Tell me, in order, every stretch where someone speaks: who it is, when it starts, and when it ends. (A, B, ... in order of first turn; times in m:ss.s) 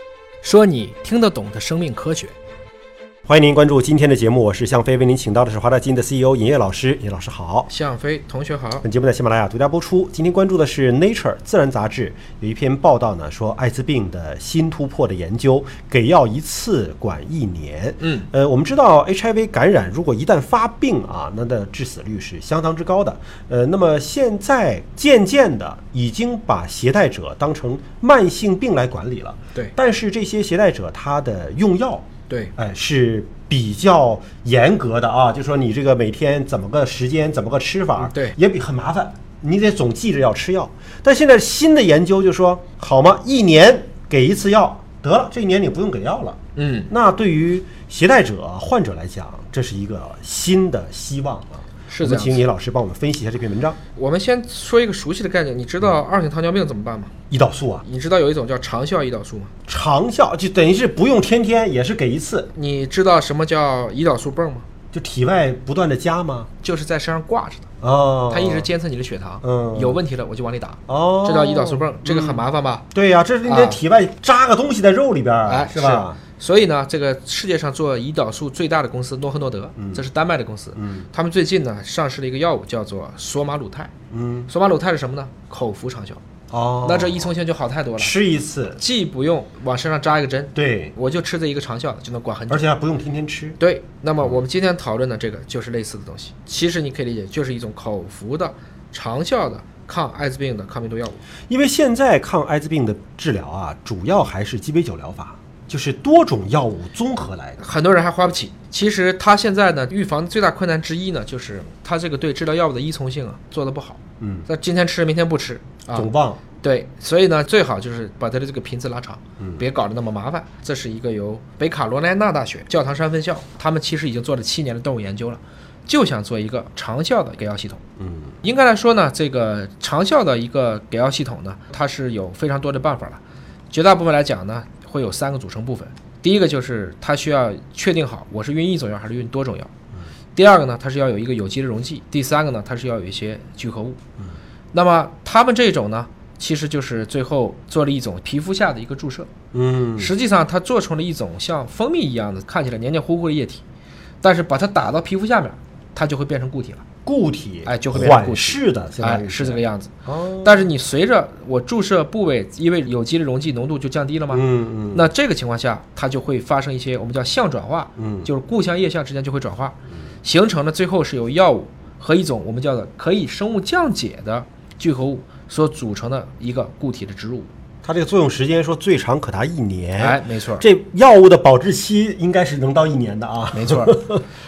0:00.4-0:02.4 A
0:03.3-0:07.7 B
0:07.7-0:08.9 A
0:08.8-0:46.4 B
0:38.0-0:38.4 A
0:46.6-0:46.9 A
0:46.9-0:53.8 B
0:51.9-0:52.4 A
0:54.0-0:57.1 A
0:57.3-0:57.8 B
0:57.8-0:59.5 A
0:59.7-1:02.5 B
1:02.5-1:04.7 A
1:04.9-1:06.5 B
1:06.6-1:07.7 A
1:07.8-1:08.7 B
1:08.3-1:12.9 A
1:09.4-1:10.0 B
1:10.9-1:16.2 B
1:13.4-1:13.8 A
1:15.5-1:23.9 A
1:19.8-1:20.0 B
1:20.8-1:21.1 B
1:24.1-1:24.5 B
1:24.5-1:26.2 A
1:26.5-1:27.3 B
1:26.8-1:28.1 A
1:28.0-1:28.8 B
1:28.8-1:32.7 A
1:30.6-1:31.0 B
1:32.5-1:33.6 B
1:33.6-1:41.2 A
1:41.5-1:47.6 B
1:47.6-2:07.8 A
1:54.2-1:54.5 B
1:55.9-1:56.4 B
1:59.4-1:59.6 B
2:08.0-2:08.4 B
2:08.4-2:13.2 A
2:13.7-2:19.7 A
2:20.4-2:24.0 A
2:24.7-2:29.3 A
2:29.5-2:30.1 B
2:30.0-2:33.6 A
2:34.2-2:36.9 A
2:37.0-2:40.7 B
2:37.7-2:39.9 A
2:40.4-2:57.5 A
2:44.3-2:45.1 B
2:48.0-2:48.3 B
2:57.8-3:04.2 B
3:00.0-3:00.6 A
3:03.5-3:04.1 A